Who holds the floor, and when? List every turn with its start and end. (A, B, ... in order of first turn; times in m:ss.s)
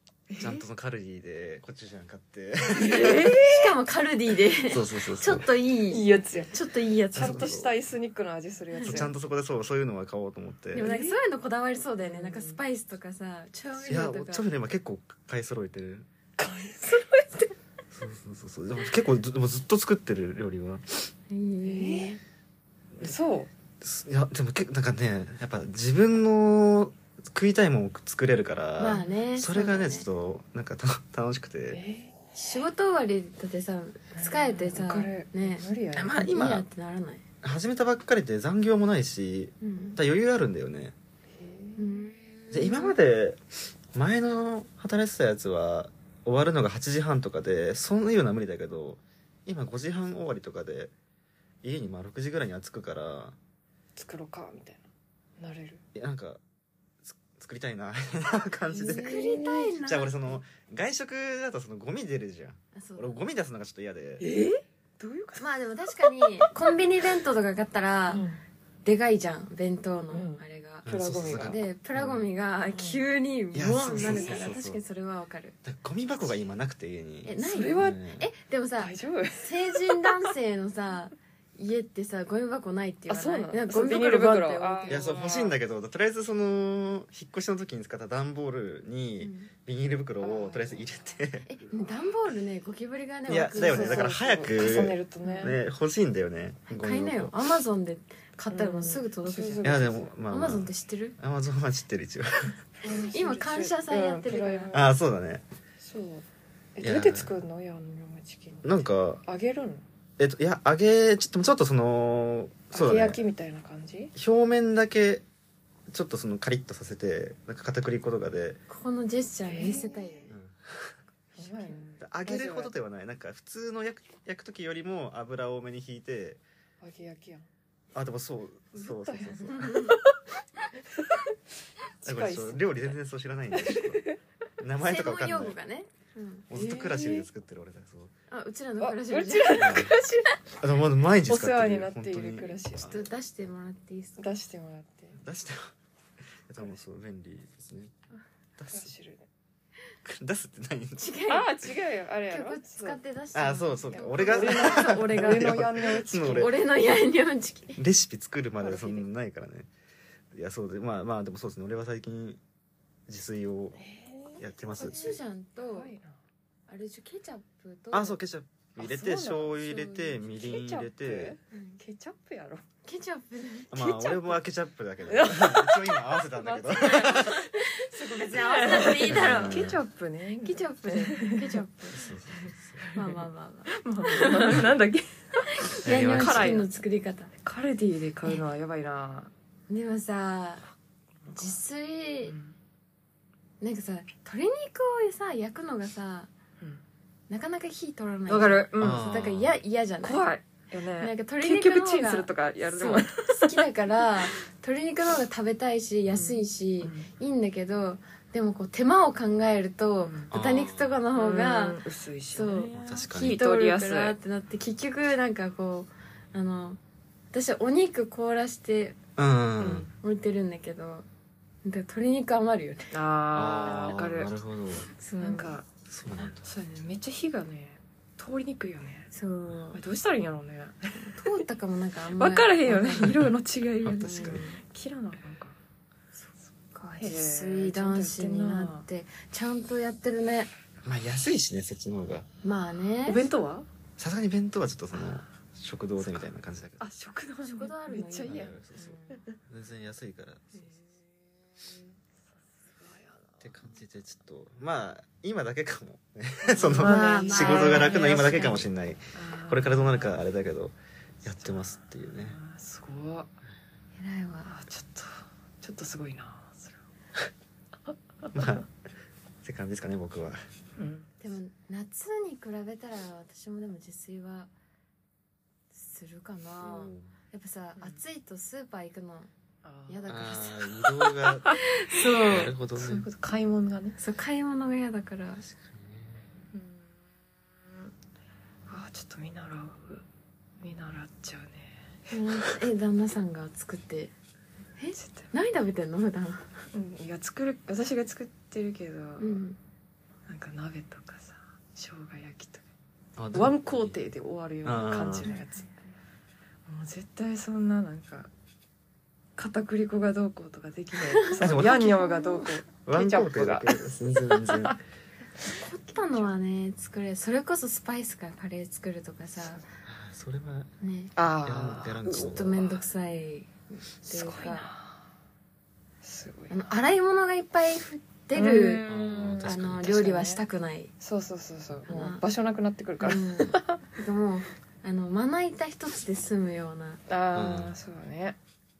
0:00.3-0:00.6 A
0:00.4-0:03.4 B
0:02.7-0:03.7 A
0:03.4-0:07.5 C
0:04.7-0:05.5 B
0:05.9-0:06.6 A
0:07.1-0:09.1 A
0:07.1-0:07.7 B
0:08.7-0:09.0 C
0:08.9-0:10.9 B
0:10.7-0:14.5 C
0:10.8-0:11.2 A
0:12.0-0:12.6 A
0:13.8-0:16.1 B
0:16.4-0:17.5 A
0:17.9-0:21.1 B
0:21.3-0:22.2 C
0:21.6-0:22.2 A
0:23.0-0:23.5 A
0:23.8-0:31.8 B
0:28.8-0:30.1 C
0:31.7-0:32.2 A
0:32.4-0:37.2 C
0:34.1-0:36.2 A
0:36.0-0:36.6 B
0:37.4-0:41.0 B
0:39.6-0:40.0 C
0:41.4-0:42.1 A
0:41.8-0:43.0 C
0:42.5-0:43.4 B
0:43.9-0:50.9 B
0:51.6-0:53.4 B
0:54.0-0:54.8 A
0:55.4-0:55.8 A
0:56.0-0:56.4 B
0:57.0-0:59.2 B
0:58.7-0:59.8 A
0:58.8-1:00.2 C
0:59.8-1:04.2 B
1:02.8-1:03.2 C
1:04.2-1:05.5 A
1:05.4-1:08.2 C
1:06.0-1:06.5 A
1:08.1-1:08.4 A
1:08.8-1:15.6 C
1:10.1-1:11.6 A
1:10.8-1:12.2 B
1:12.7-1:13.0 A
1:13.5-1:14.8 B
1:13.9-1:14.4 A
1:15.6-1:18.2 B
1:17.2-1:25.2 C
1:17.4-1:18.0 A
1:18.8-1:20.3 A
1:23.1-1:25.6 A
1:24.9-1:31.5 B
1:29.2-1:29.5 C
1:30.2-1:31.2 A
1:31.4-1:34.1 C
1:33.3-1:37.3 B
1:33.5-1:35.6 A
1:35.2-1:35.5 C
1:36.7-1:39.7 C
1:38.5-1:40.1 A
1:39.6-1:42.6 B
1:40.3-1:41.2 C
1:42.8-1:44.9 A
1:42.9-1:44.8 C
1:44.7-1:45.4 B
1:45.8-1:49.8 A
1:46.8-1:47.3 B
1:48.6-1:49.2 B
1:50.2-1:53.2 B
1:52.7-1:54.1 A
1:54.2-1:55.2 B
1:55.9-1:58.6 B
1:58.7-2:00.4 C
1:59.5-2:00.1 A
2:00.3-2:01.0 B
2:01.4-2:01.8 C
2:01.4-2:02.7 A
2:02.0-2:06.4 B
2:06.8-2:07.5 A
2:08.0-2:09.8 B
2:08.7-2:10.1 A
2:09.5-2:10.0 C
2:10.9-2:11.3 A
2:12.0-2:13.0 A
2:12.0-2:14.0 B
2:13.5-2:14.2 A
2:14.6-2:15.6 B
2:14.8-2:16.5 C
2:16.5-2:18.1 B
2:16.5-2:17.3 A
2:18.3-2:19.9 C
2:18.8-2:20.4 A
2:19.6-2:20.0 B
2:20.6-2:22.6 B
2:21.3-2:23.0 A
2:22.8-2:24.2 C
2:24.2-2:25.2 A
2:25.2-2:25.7 B
2:26.5-2:27.9 B
2:28.6-2:28.9 B
2:28.7-2:29.2 A
2:30.0-2:31.1 B
2:31.0-2:31.5 C
2:31.3-2:33.0 A
2:32.3-2:35.6 C
2:33.3-2:36.5 B
2:34.0-2:36.5 A
2:36.2-2:37.8 C
2:37.8-2:39.7 B
2:38.6-2:39.0 A
2:40.3-2:42.4 B
2:43.1-2:43.8 B
2:43.8-2:46.2 A
2:44.4-2:45.2 B
2:44.8-2:45.9 C
2:46.7-2:48.2 C
2:47.9-2:51.4 B
2:48.8-2:52.6 A
2:51.5-2:51.8 C
2:52.8-2:54.4 C
2:53.7-2:57.4 B
2:55.1-3:01.6 A
2:56.9-2:59.7 C
2:59.1-2:59.8 B
3:00.4-3:02.1 C
3:01.9-3:02.9 B
3:02.4-3:06.7 A
3:02.9-3:04.7 C
3:05.5-3:07.3 C
3:05.8-3:06.5 B
3:07.4-3:09.3 A
3:09.7-3:10.7 C
3:11.2-3:11.6 A
3:11.3-3:12.4 C
3:12.2-3:12.5 A
3:13.6-3:16.3 C
3:17.3-3:20.2 C
3:18.3-3:19.1 A
3:18.8-3:19.6 B
3:20.0-3:23.7 A
3:21.0-3:31.8 C
3:26.1-3:27.1 A
3:30.0-3:30.3 A
3:30.3-3:31.0 B
3:31.1-3:34.2 A
3:32.3-3:36.8 C
3:32.8-3:33.4 B
3:37.3-3:39.0 C
3:39.2-3:39.9 B
3:39.7-3:41.1 C
3:41.6-3:42.9 C
3:42.9-3:44.3 A
3:43.3-3:44.9 B
3:45.0-3:45.6 C
3:45.2-3:49.1 A
3:45.9-3:46.4 B
3:49.1-3:49.8 C
3:49.7-3:51.4 A
3:51.0-3:53.3 C
3:52.1-3:55.6 A
3:53.8-3:54.4 B
3:54.0-3:54.6 C
3:56.2-4:00.5 C
3:57.0-3:58.9 A
4:00.8-4:02.3 B
4:02.4-4:03.2 C
4:03.1-4:03.7 A
4:04.0-4:06.8 B
4:04.9-4:05.2 A
4:06.8-4:08.6 A
4:07.4-4:09.2 C
4:08.3-4:09.0 B
4:09.1-4:09.4 A
4:09.5-4:10.7 B
4:10.6-4:13.5 A
4:13.4-4:22.4 B
4:16.4-4:20.2 A
4:16.8-4:18.6 C
4:21.3-4:23.3 A
4:24.0-4:24.5 C
4:24.5-4:26.8 A
4:27.9-4:28.5 A
4:28.3-4:28.7 B
4:29.4-4:30.4 B
4:30.8-4:31.1 A
4:31.2-4:34.5 C
4:35.7-4:39.3 C
4:36.6-4:37.1 B
4:39.6-4:40.1 A
4:39.9-4:41.0 C
4:40.1-4:41.5 B
4:41.6-4:42.5 C
4:42.3-4:43.1 B
4:42.7-4:44.0 A
4:44.0-4:45.4 C
4:45.4-4:46.2 B
4:46.5-4:47.9 A
4:48.7-4:50.0 A
4:50.6-4:52.2 A
4:52.1-4:54.1 C
4:54.8-4:56.6 C
4:55.0-4:55.2 A
4:56.7-4:59.4 A
4:59.2-4:59.6 C
5:00.3-5:02.6 A
5:03.2-5:04.0 B
5:03.3-5:05.7 A
5:04.6-5:05.3 B
5:05.2-5:05.7 C
5:06.7-5:08.3 A
5:09.4-5:14.8 A
5:11.2-5:12.5 C
5:11.4-5:11.9 B
5:12.9-5:14.8 B
5:15.4-5:19.6 C
5:16.0-5:16.3 A
5:19.9-5:20.7 B
5:20.8-5:21.1 C
5:21.2-5:22.5 A
5:21.4-5:22.7 B
5:22.1-5:24.7 C
5:24.1-5:25.0 A
5:26.0-5:26.7 A
5:26.5-5:28.8 C
5:28.3-5:30.4 A
5:28.9-5:29.9 B
5:29.4-5:30.9 C
5:31.0-5:33.8 A
5:31.9-5:32.2 C
5:33.0-5:37.0 C
5:37.1-5:38.4 A
5:37.3-5:37.8 B